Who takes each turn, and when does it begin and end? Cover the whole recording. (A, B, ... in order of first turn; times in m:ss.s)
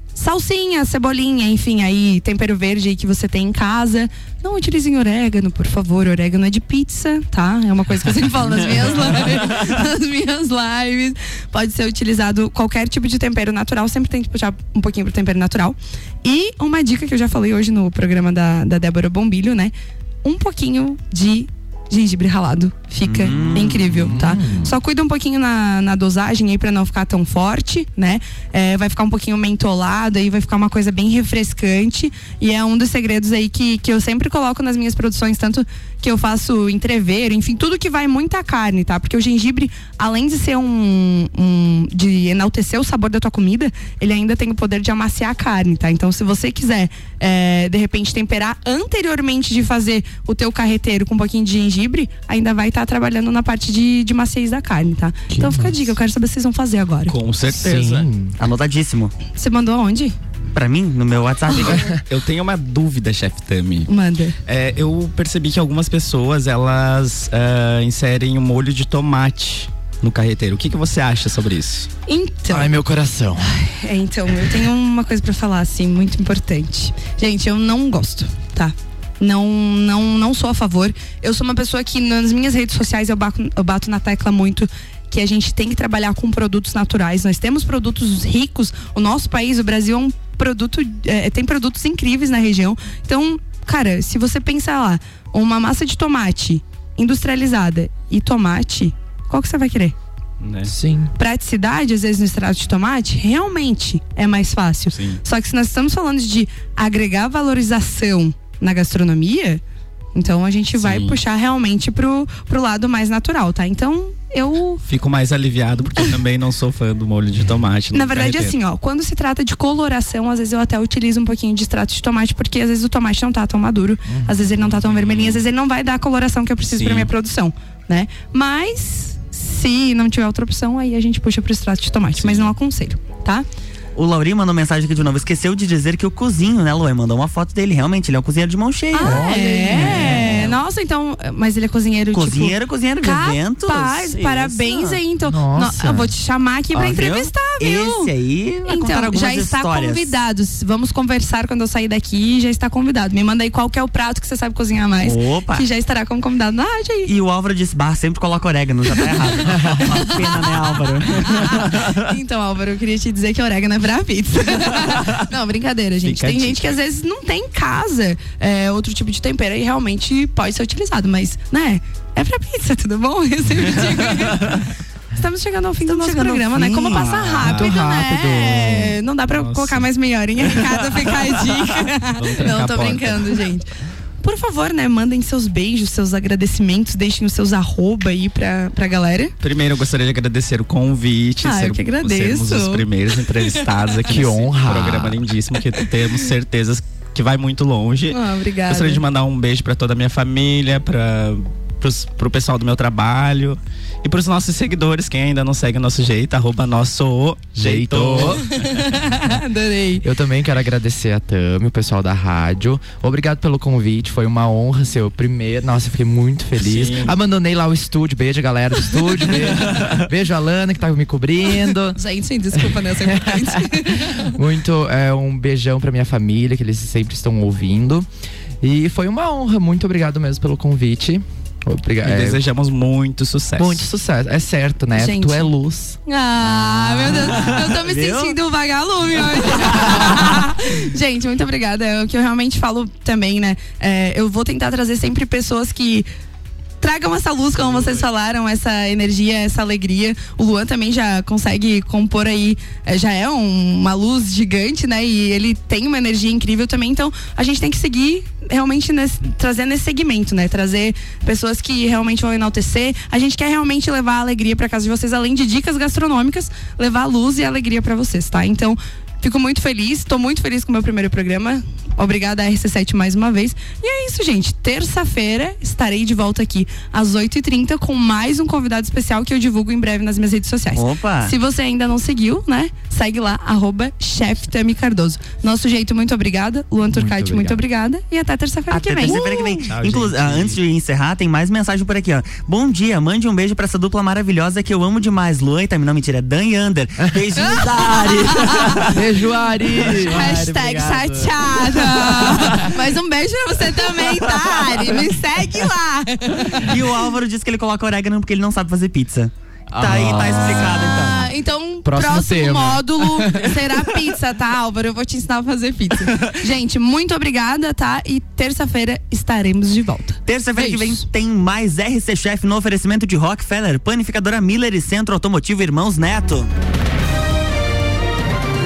0:00.1-0:19.7 A
0:08.5-0:09.4 B
0:20.2-0:57.1 A
0:23.0-0:24.2 C
0:23.9-0:24.8 D
0:55.3-0:55.9 D
0:57.0-0:58.1 B
0:57.4-0:58.3 D
0:58.4-0:59.1 C
0:59.4-1:00.1 A
1:00.5-1:01.9 C
1:01.8-1:03.9 B
1:03.9-1:04.4 A
1:04.4-1:11.9 B
1:12.1-1:12.8 A
1:12.5-1:13.6 D
1:13.4-1:39.9 A
1:40.4-1:40.7 B
1:40.6-1:41.1 D
1:41.1-1:49.6 A
1:44.9-1:45.2 B
1:50.1-1:54.8 A
1:50.7-1:51.2 B
1:54.8-1:58.6 B
1:57.9-2:13.4 A
2:04.0-2:04.6 D
2:04.6-2:05.4 B
2:06.7-2:07.1 B
2:12.2-2:12.5 B
2:13.9-2:20.5 C
2:18.9-2:28.1 A
2:19.0-2:20.4 D
2:22.1-2:25.0 C
2:25.2-2:26.1 D
2:26.7-2:30.2 C
2:28.6-2:37.1 A
2:35.0-2:35.6 C
2:37.0-2:41.9 C
2:39.0-2:54.6 A
2:46.0-2:46.8 B
2:55.1-3:03.7 A
2:55.8-2:57.0 C
2:56.5-2:59.9 B
2:57.4-2:58.9 D
3:00.4-3:01.6 B
3:02.2-3:03.4 B
3:04.2-3:09.3 A
3:09.4-3:28.5 B
3:11.4-3:12.8 A
3:13.4-3:13.7 A
3:14.0-3:15.3 D
3:18.1-3:19.0 A
3:27.6-3:28.4 D
3:28.4-3:30.0 A
3:30.0-3:42.0 D
3:36.6-3:37.2 B
3:42.0-3:44.3 A
3:42.5-3:48.1 D
3:48.6-3:52.4 D
3:52.0-3:53.8 B
3:53.6-3:56.0 D
3:55.0-3:55.5 A
3:56.0-4:06.1 A
3:57.3-3:58.4 C
4:06.8-4:49.7 A
4:07.5-4:08.1 B
4:40.7-4:41.3 C
4:46.8-4:47.6 D
4:48.7-4:58.8 C
4:49.7-4:50.6 B
4:57.4-4:58.8 A
4:58.9-5:00.4 D
4:59.7-5:02.8 B
5:00.0-5:06.8 A
5:04.2-5:04.9 B
5:06.6-5:11.2 C
5:09.7-5:10.6 B
5:09.8-5:10.8 D
5:10.6-5:21.0 A
5:11.8-5:13.8 D
5:20.2-5:26.5 C